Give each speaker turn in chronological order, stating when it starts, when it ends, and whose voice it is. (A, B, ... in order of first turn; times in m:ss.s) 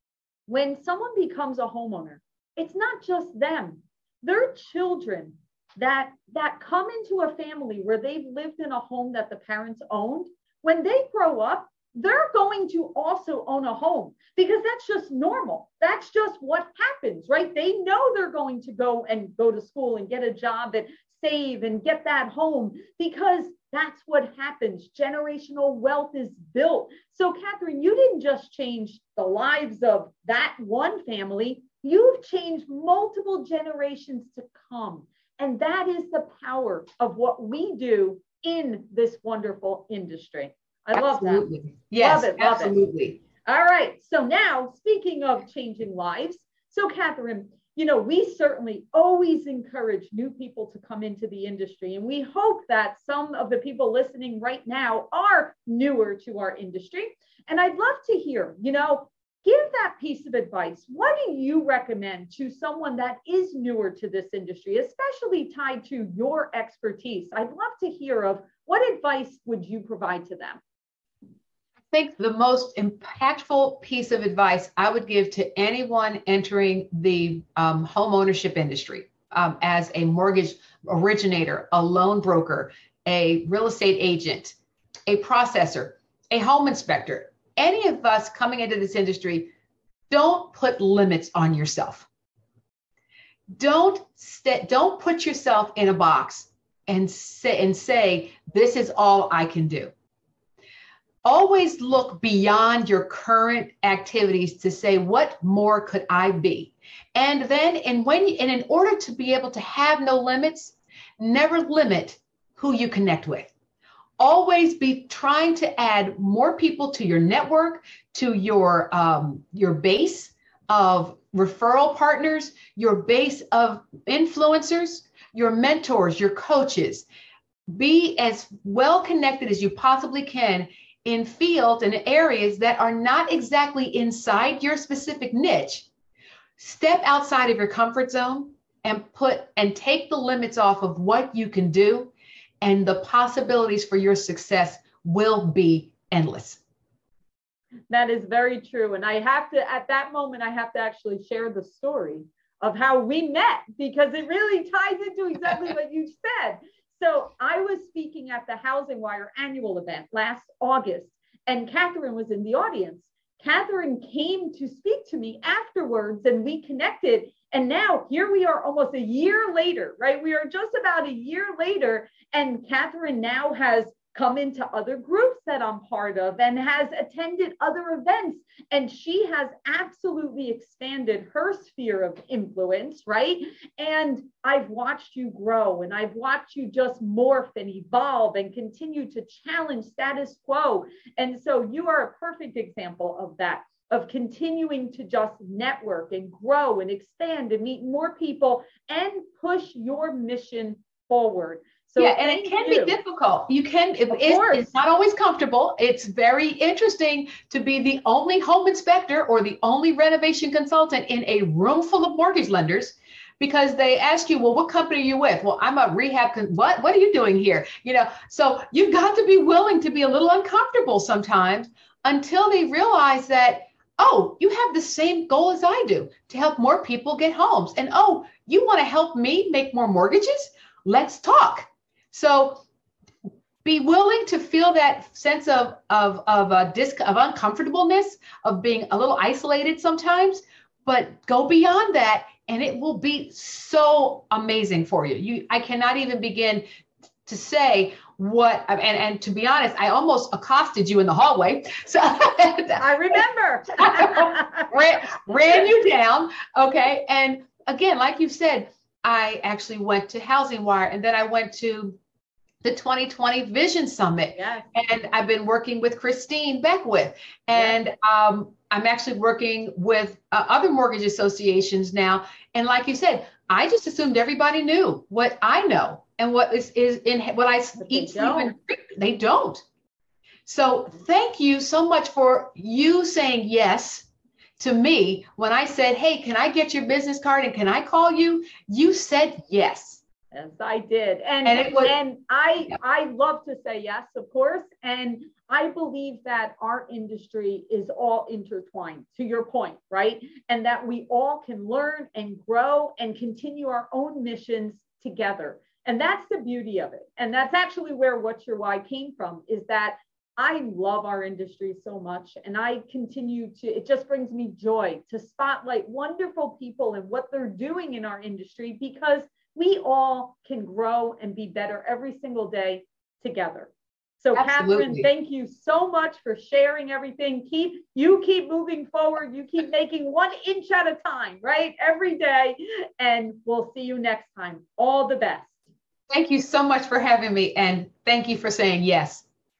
0:00.5-0:42.7 A
0:40.9-0:43.2 B
0:43.4-1:10.6 A
1:11.9-1:24.6 B
1:25.1-1:29.5 B
1:30.1-1:32.1 B
1:33.6-1:39.9 B
1:41.2-1:53.5 B
1:54.2-2:07.1 B
2:07.7-2:15.9 B
2:16.6-2:26.6 B
2:27.9-3:23.0 A
3:22.0-3:52.6 B
3:24.1-3:24.6 A
3:53.6-4:06.6 B
4:07.2-4:13.2 B
4:12.8-4:14.6 A
4:13.8-4:22.0 B
4:22.6-4:39.6 B
4:24.4-4:24.7 A
4:37.8-4:38.5 A
4:40.4-4:44.1 B
4:44.6-4:50.0 B
4:50.3-5:35.6 A
4:51.4-4:52.0 B
5:24.3-5:25.1 B
5:36.1-5:39.2 B